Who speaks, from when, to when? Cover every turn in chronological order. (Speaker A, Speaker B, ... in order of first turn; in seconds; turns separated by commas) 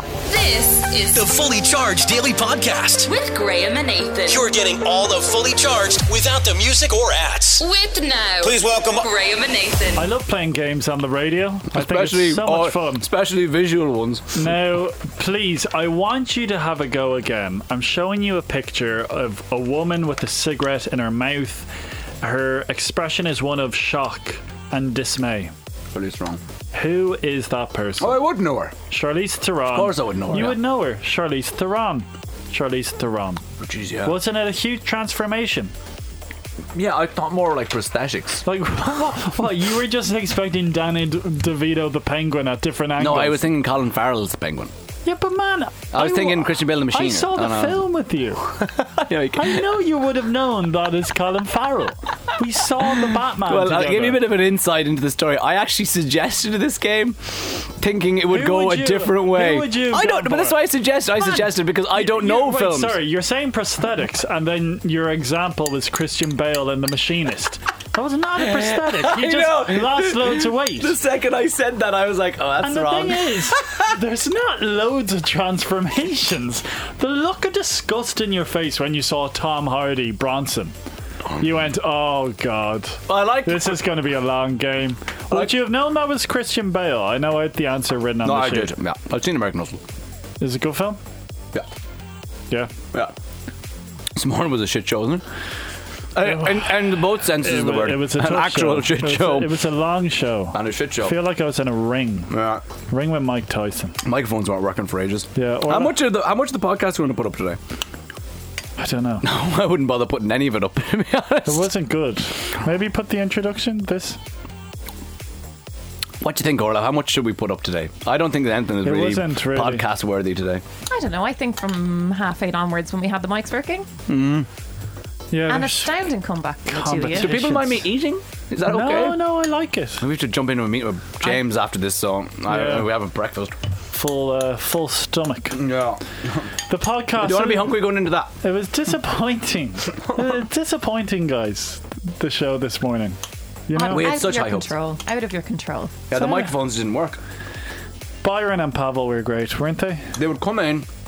Speaker A: 0.3-1.2, Speaker B: 1.1-3.1, Speaker A: 3.0-4.4, Speaker B: 4.2-7.6, Speaker A: 7.6-10.0, Speaker B: 8.4-9.1, Speaker C: 9.9-13.1, Speaker D: 11.7-14.3, Speaker C: 14.3-21.7, Speaker C: 22.2-25.5, Speaker D: 25.9-26.4, Speaker C: 26.7-28.2, Speaker D: 28.0-28.7, Speaker C: 28.9-33.4, Speaker D: 29.7-30.6, Speaker D: 33.6-34.1, Speaker C: 34.0-35.7, Speaker D: 36.7-38.4, Speaker C: 38.5-43.4, Speaker D: 43.0-44.7, Speaker C: 45.0-48.6, Speaker D: 45.9-47.8, Speaker D: 48.8-49.6, Speaker C: 49.3-54.2, Speaker D: 53.5-63.0, Speaker C: 58.3-60.6, Speaker C: 61.9-70.9, Speaker D: 68.4-73.8, Speaker C: 72.6-80.7, Speaker C: 81.4-88.7, Speaker D: 83.1-83.8, Speaker D: 88.2-89.8, Speaker C: 90.4-91.0, Speaker D: 94.2-95.2, Speaker D: 96.1-99.5, Speaker C: 96.2-102.3, Speaker D: 100.5-101.1, Speaker D: 102.3-102.6, Speaker C: 102.9-104.0, Speaker D: 104.0-107.6, Speaker C: 105.3-105.9, Speaker C: 108.8-109.2, Speaker D: 109.2-111.7, Speaker C: 111.5-114.2, Speaker D: 116.2-120.6, Speaker C: 118.8-119.8, Speaker E: 120.9-123.9, Speaker D: 124.1-124.5, Speaker C: 125.3-126.0, Speaker E: 125.5-127.3, Speaker C: 126.7-127.8, Speaker D: 127.1-129.2, Speaker C: 128.7-130.0, Speaker D: 130.0-133.5, Speaker C: 132.5-132.9, Speaker C: 133.9-135.6, Speaker D: 135.6-136.4, Speaker C: 136.7-137.7, Speaker D: 137.2-138.3, Speaker C: 138.4-143.2, Speaker C: 143.7-144.1, Speaker E: 143.7-146.0, Speaker D: 143.9-144.7, Speaker D: 146.1-147.2, Speaker C: 146.1-146.5, Speaker C: 148.2-150.1, Speaker D: 150.2-150.9